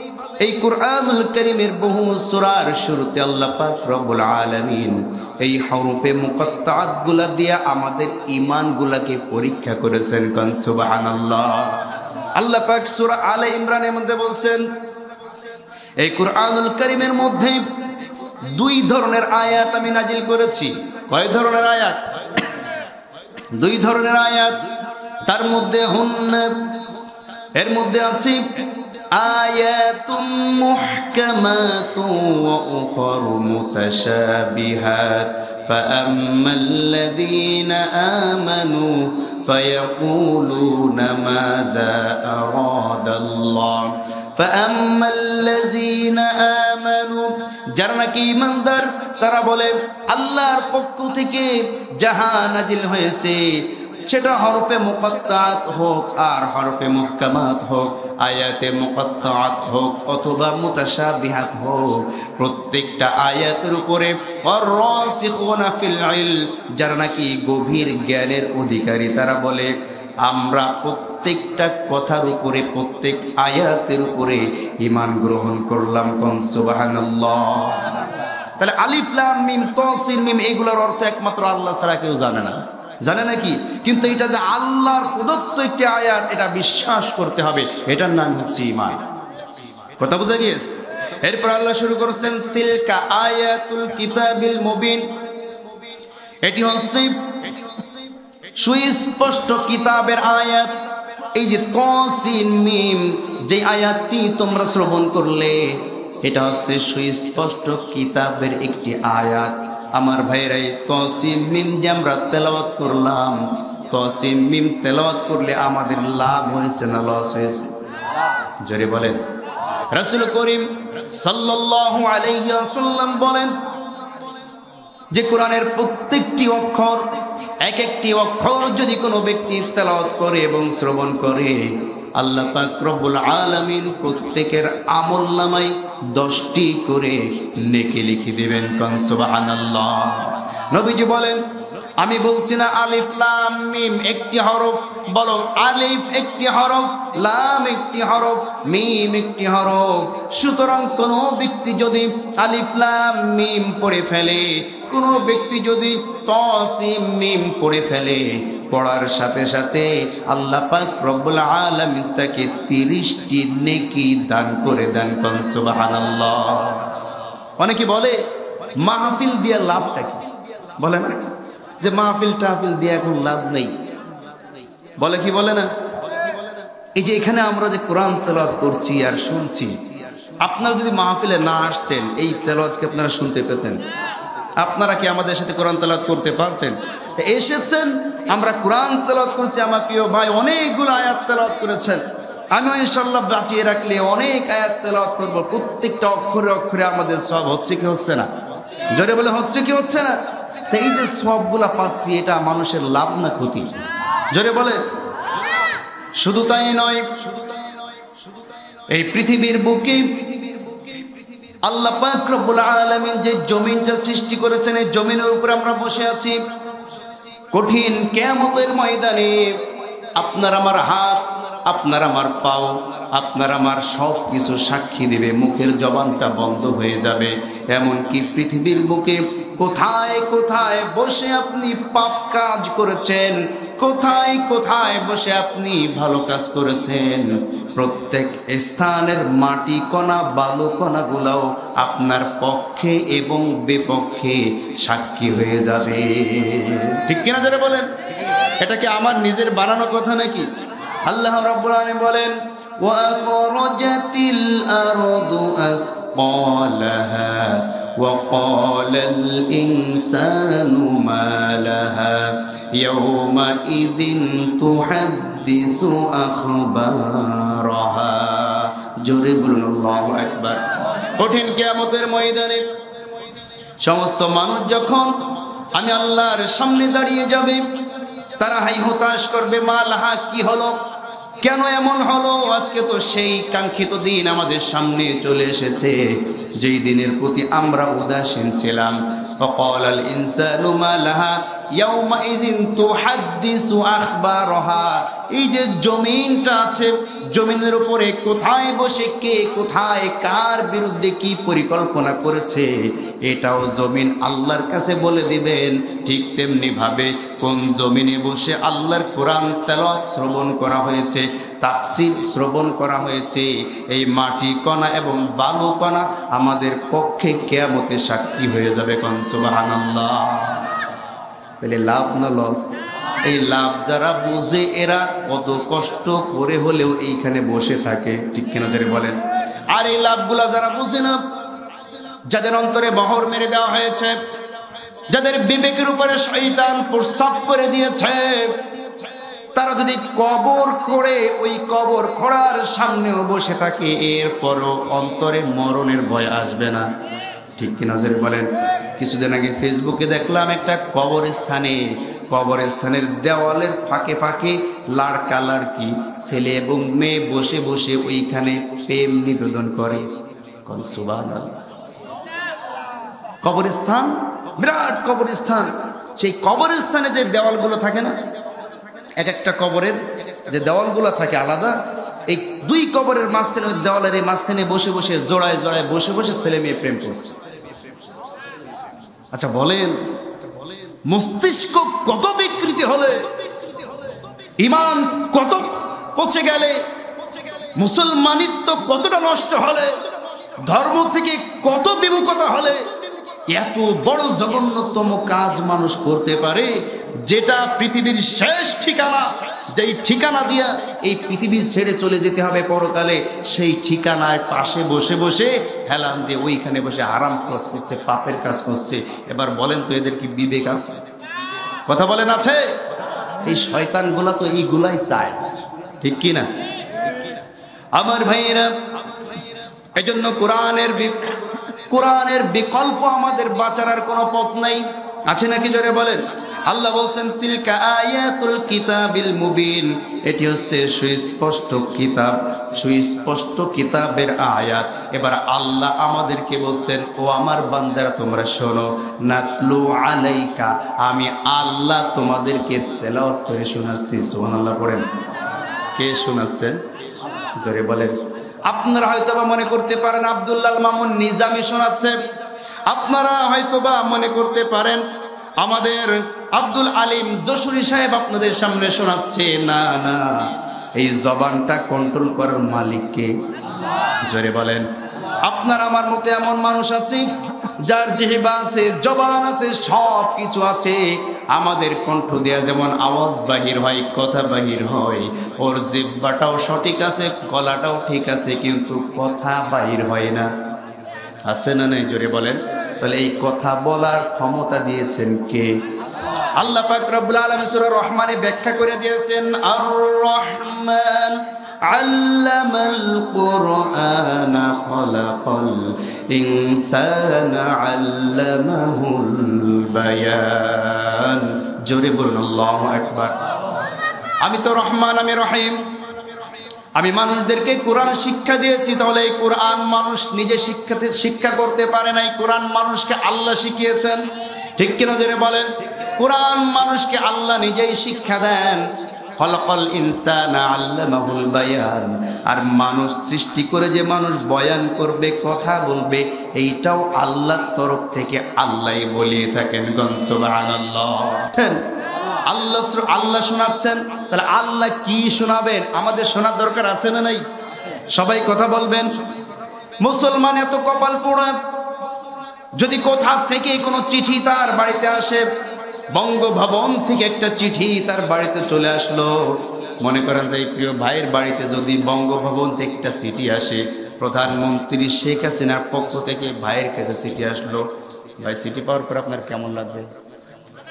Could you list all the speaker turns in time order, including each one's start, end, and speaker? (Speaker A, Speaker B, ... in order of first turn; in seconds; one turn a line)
Speaker A: 0.4-14.6
Speaker A: 16.0-17.8
Speaker A: 18.5-22.6
Speaker A: 23.5-24.7
Speaker A: 25.2-26.8
Speaker A: 27.5-89.0
Speaker A: 90.0-95.1
Speaker A: 96.4-97.5
Speaker A: 98.5-100.8
Speaker A: 101.3-117.8
Speaker A: 118.6-119.2
Speaker A: 119.9-123.6
Speaker A: 125.1-141.4
Speaker A: 142.0-167.0
Speaker A: 167.6-168.2
Speaker A: 168.8-171.2
Speaker A: 171.8-173.8
Speaker A: 175.0-175.7
Speaker A: 176.9-179.9
Speaker A: 180.4-183.8
Speaker A: 184.6-198.3
Speaker A: 198.9-207.3
Speaker A: 208.9-210.7
Speaker A: 211.6-216.4
Speaker A: 217.5-250.5
Speaker A: 251.0-272.7
Speaker A: 273.8-277.7
Speaker A: 278.4-280.8
Speaker A: 281.4-320.8
Speaker A: 321.6-329.2
Speaker A: 329.7-331.2
Speaker A: 332.3-334.1
Speaker A: 335.1-338.6
Speaker A: 339.5-346.9
Speaker A: 347.6-360.1
Speaker A: 360.6-361.7
Speaker A: 363.4-368.2
Speaker A: 369.2-377.4
Speaker A: 379.3-380.1
Speaker A: 381.0-383.4
Speaker A: 384.6-386.9
Speaker A: 387.7-390.1
Speaker A: 390.6-392.9
Speaker A: 393.4-411.0
Speaker A: 411.9-412.8
Speaker A: 413.4-415.5
Speaker A: 416.0-416.5
Speaker A: 417.9-418.7
Speaker A: 419.9-445.1
Speaker A: 445.9-446.8
Speaker A: 447.5-452.2
Speaker A: 452.9-455.0
Speaker A: 455.6-463.4
Speaker A: 464.2-480.5
Speaker A: 481.4-485.8
Speaker A: 486.6-503.4
Speaker A: 504.4-505.8
Speaker A: 506.9-514.2
Speaker A: 514.8-531.9
Speaker A: 532.4-537.4
Speaker A: 538.1-539.1
Speaker A: 540.0-541.6
Speaker A: 542.7-545.5
Speaker A: 546.1-560.1